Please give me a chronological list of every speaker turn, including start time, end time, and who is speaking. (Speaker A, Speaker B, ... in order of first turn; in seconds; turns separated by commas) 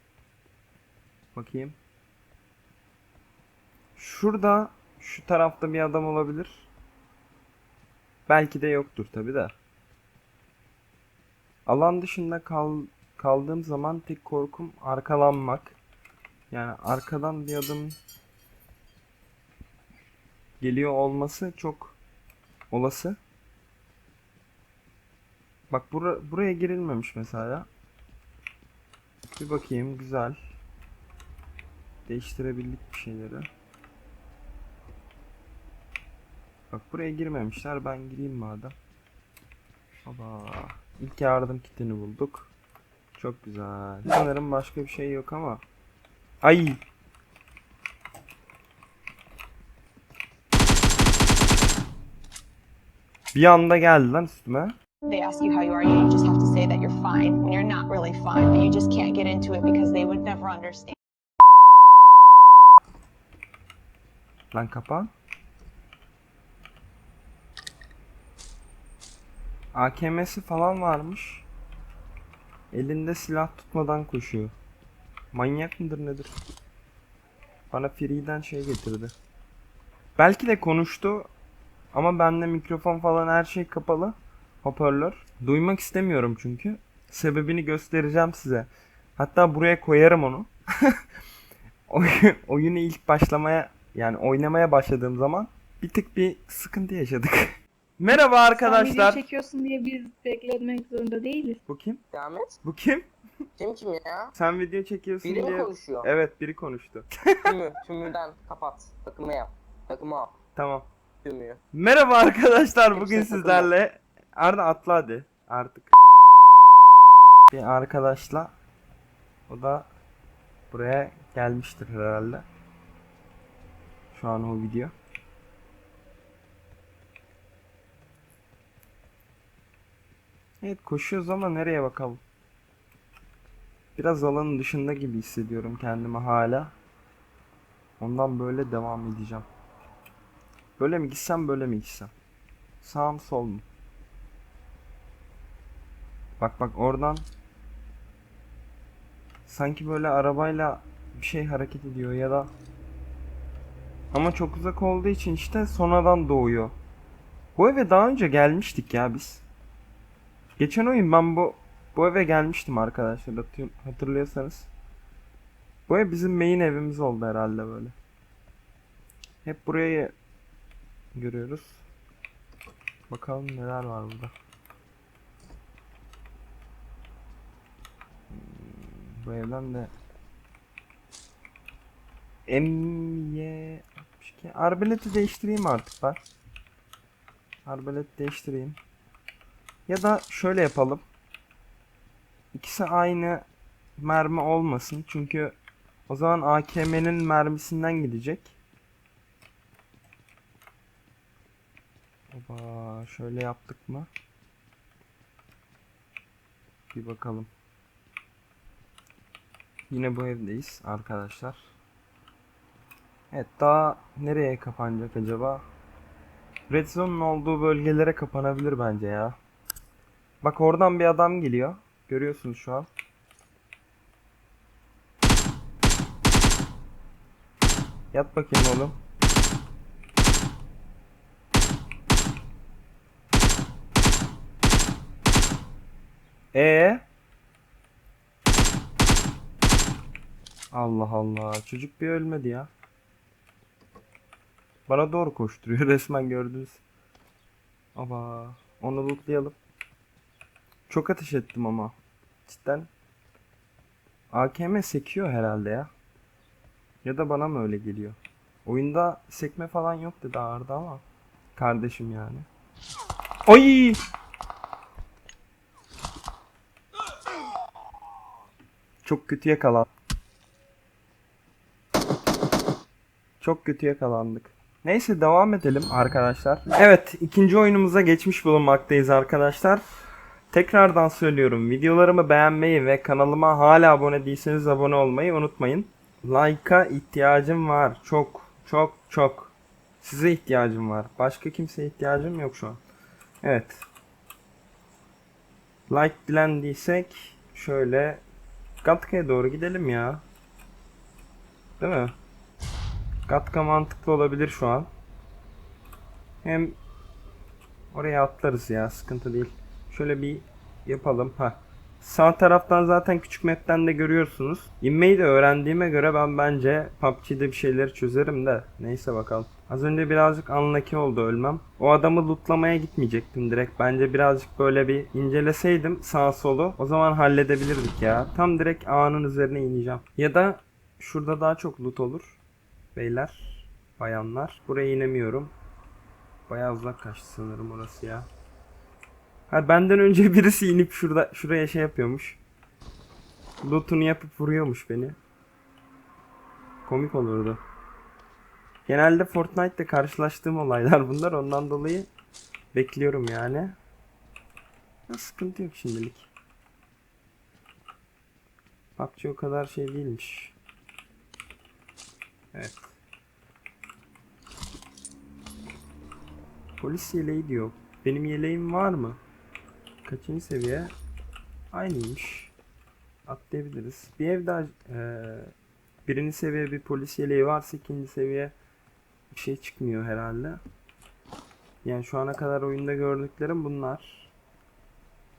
Speaker A: 1.3-1.8, Speaker A: 4.0-6.7, Speaker A: 8.3-9.6, Speaker A: 11.7-15.8, Speaker A: 16.5-18.0, Speaker A: 20.6-22.0, Speaker A: 22.7-23.2, Speaker A: 25.7-27.7, Speaker A: 29.4-30.4, Speaker A: 32.1-33.5, Speaker A: 36.7-38.8, Speaker A: 40.1-42.5, Speaker A: 43.2-45.6, Speaker A: 46.4-46.8, Speaker A: 53.3-54.8, Speaker B: 55.1-61.0, Speaker A: 64.5-65.1, Speaker A: 69.7-71.5, Speaker A: 72.7-74.5, Speaker A: 75.3-76.4, Speaker A: 77.7-79.1, Speaker A: 80.2-81.3, Speaker A: 81.9-91.0, Speaker A: 91.9-99.2, Speaker C: 98.4-101.6, Speaker A: 101.7-102.0, Speaker D: 102.1-102.6, Speaker A: 102.6-103.1, Speaker D: 103.6-104.3, Speaker A: 104.3-107.1, Speaker D: 105.2-106.1, Speaker D: 107.4-110.3, Speaker A: 110.5-110.9, Speaker D: 111.2-111.6, Speaker A: 111.7-115.9, Speaker D: 112.9-113.7, Speaker A: 117.5-118.5, Speaker A: 119.5-119.9, Speaker A: 120.7-122.5, Speaker A: 124.1-124.9, Speaker A: 130.6-132.2, Speaker A: 134.0-136.8, Speaker A: 138.0-139.5, Speaker A: 140.8-142.1, Speaker A: 142.8-143.7, Speaker A: 146.4-147.3, Speaker A: 149.4-152.5, Speaker A: 154.1-156.8, Speaker A: 157.6-159.4, Speaker A: 160.6-164.7, Speaker A: 165.9-167.9, Speaker A: 169.4-170.1, Speaker A: 171.2-171.8, Speaker A: 173.1-174.3, Speaker A: 178.3-179.9, Speaker A: 182.5-186.2, Speaker A: 187.7-188.8, Speaker A: 189.9-191.1, Speaker A: 192.5-193.4, Speaker A: 194.0-195.6, Speaker A: 196.1-198.6, Speaker A: 202.3-204.1, Speaker A: 206.9-207.5, Speaker A: 209.9-211.7, Speaker A: 213.3-215.7, Speaker A: 216.7-219.4, Speaker A: 220.4-222.9, Speaker A: 228.1-228.9, Speaker A: 236.5-237.0, Speaker A: 240.7-242.7, Speaker A: 244.9-246.8, Speaker A: 247.9-249.6, Speaker A: 250.9-252.9, Speaker A: 254.3-255.9, Speaker A: 257.0-261.0, Speaker A: 261.6-262.5, Speaker A: 263.5-264.0, Speaker A: 269.0-269.9, Speaker A: 273.4-279.8, Speaker A: 280.5-292.8, Speaker A: 293.4-293.9, Speaker A: 295.9-298.2, Speaker A: 298.8-300.2, Speaker A: 301.8-302.1, Speaker A: 303.3-304.9, Speaker A: 306.4-306.8, Speaker A: 307.9-332.4, Speaker A: 332.9-335.5, Speaker A: 336.5-338.3, Speaker A: 339.5-342.4, Speaker A: 343.6-345.2, Speaker A: 346.9-347.6, Speaker A: 348.9-352.1, Speaker A: 352.7-353.8, Speaker A: 355.1-356.3, Speaker A: 359.0-360.6, Speaker A: 362.5-363.0, Speaker A: 366.8-369.2, Speaker A: 370.1-370.9, Speaker A: 371.7-372.5, Speaker A: 373.3-375.5, Speaker A: 376.1-378.5, Speaker A: 379.3-380.6, Speaker A: 381.8-384.3